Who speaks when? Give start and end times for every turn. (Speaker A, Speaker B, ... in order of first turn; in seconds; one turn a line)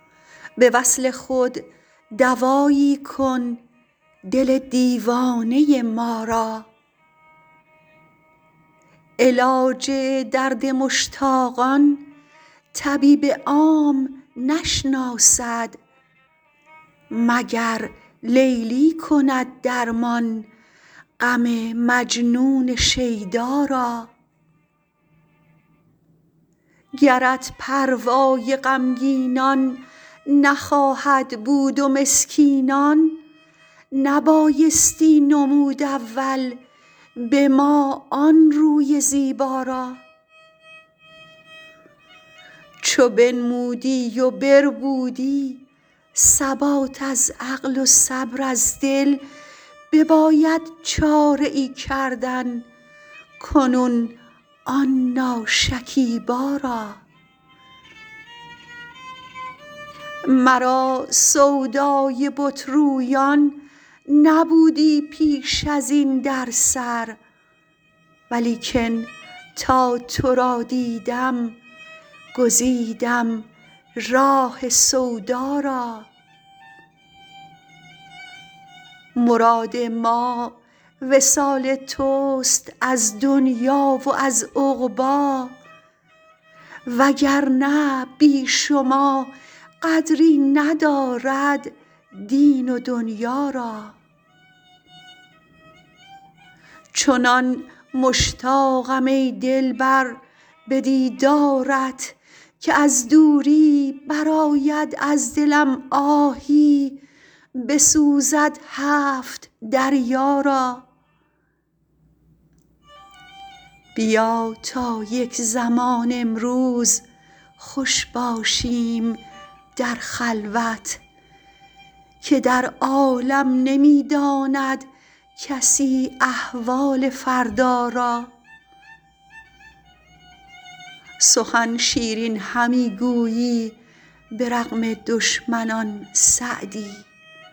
Speaker A: 0.6-3.6
Speaker A: 4.2-6.7
Speaker A: 9.2-12.1
Speaker A: 12.7-15.8
Speaker A: 17.1-20.5
Speaker A: 21.2-24.1
Speaker A: 27.0-33.2
Speaker A: 33.9-36.6
Speaker A: 37.2-40.0
Speaker A: 42.8-45.6
Speaker A: 46.1-49.2
Speaker A: 49.9-52.7
Speaker A: 53.4-57.0
Speaker A: 60.2-67.2
Speaker A: 68.3-71.6
Speaker A: 72.3-76.1
Speaker A: 79.2-85.6
Speaker A: 86.9-94.0
Speaker A: 96.9-107.0
Speaker A: 107.5-110.9
Speaker A: 114.0-117.0
Speaker A: 117.6-119.2
Speaker A: 119.8-121.0
Speaker A: 122.2-128.3
Speaker A: 131.2-133.8
Speaker A: 134.3-137.1